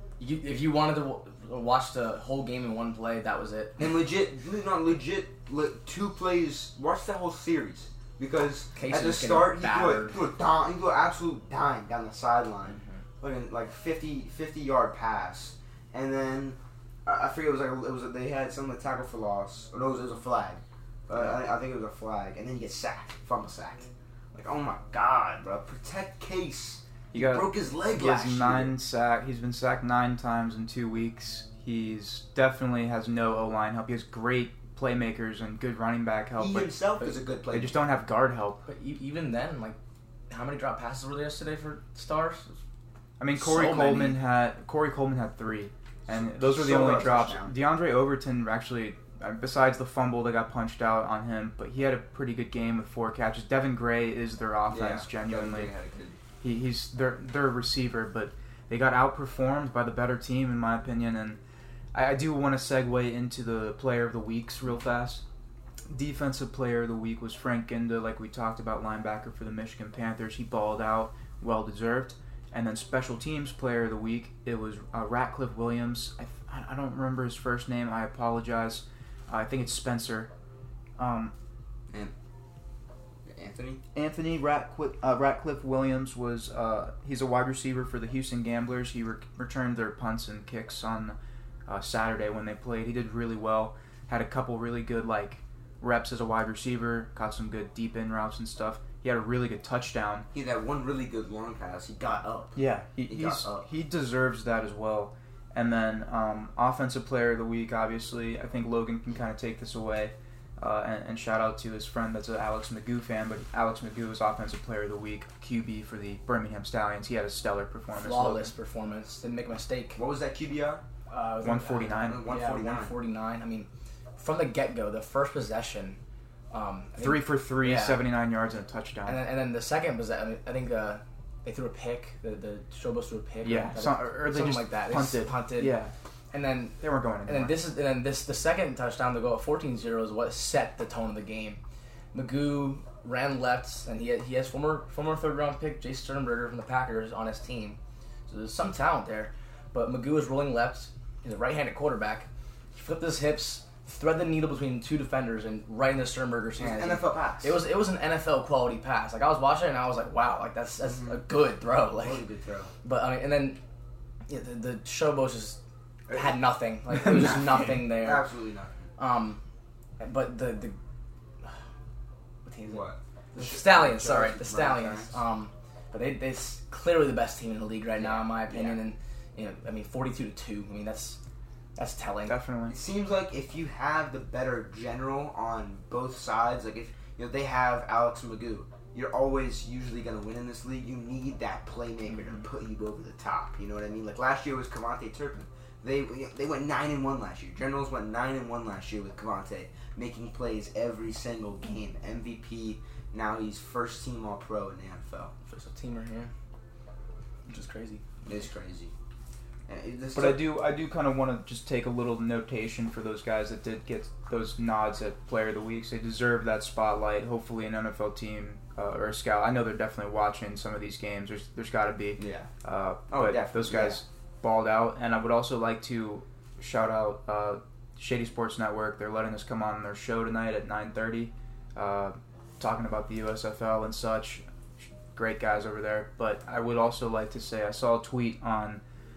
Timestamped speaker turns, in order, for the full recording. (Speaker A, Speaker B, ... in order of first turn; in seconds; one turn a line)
Speaker A: 0.2-3.9
Speaker B: 3.8-28.7
Speaker A: 8.8-10.2
Speaker C: 21.2-21.4
Speaker C: 27.1-36.8
Speaker B: 36.4-37.8
Speaker C: 37.5-38.6
Speaker A: 38.7-39.8
Speaker A: 40.3-42.5
Speaker C: 43.2-55.7
Speaker A: 43.4-44.2
Speaker B: 46.1-47.6
Speaker B: 54.7-56.2
Speaker C: 56.4-61.4
Speaker C: 61.9-65.2
Speaker C: 65.9-80.3
Speaker C: 81.0-81.3
Speaker B: 83.3-83.8
Speaker C: 84.0-100.3
Speaker B: 100.3-103.7
Speaker C: 102.6-118.5
Speaker A: 118.0-120.0
Speaker B: 120.0-120.8
Speaker A: 121.1-126.0
Speaker C: 121.4-122.3
Speaker B: 122.1-123.0
Speaker A: 126.5-128.1
Speaker C: 127.0-129.2
Speaker A: 129.1-135.8
Speaker C: 133.4-135.9
Speaker A: 136.3-141.6
Speaker C: 136.8-137.6
Speaker A: 142.1-162.2
Speaker B: 156.6-157.6
Speaker B: 160.8-161.2
Speaker B: 162.0-162.7
Speaker A: 162.8-163.6
Speaker A: 164.3-165.6
Speaker A: 166.1-168.2
Speaker B: 167.0-168.8
Speaker A: 169.0-169.4
Speaker A: 170.0-170.8
Speaker A: 172.4-181.2
Speaker B: 172.7-175.2
Speaker B: 178.0-178.8
Speaker A: 181.8-182.4
Speaker C: 182.3-182.8
Speaker B: 182.7-205.3
Speaker A: 205.5-206.3
Speaker A: 207.5-208.0
Speaker B: 208.2-208.9
Speaker B: 209.7-210.5
Speaker C: 210.1-234.4
Speaker B: 222.2-222.5
Speaker B: 223.1-224.0
Speaker C: 235.1-238.8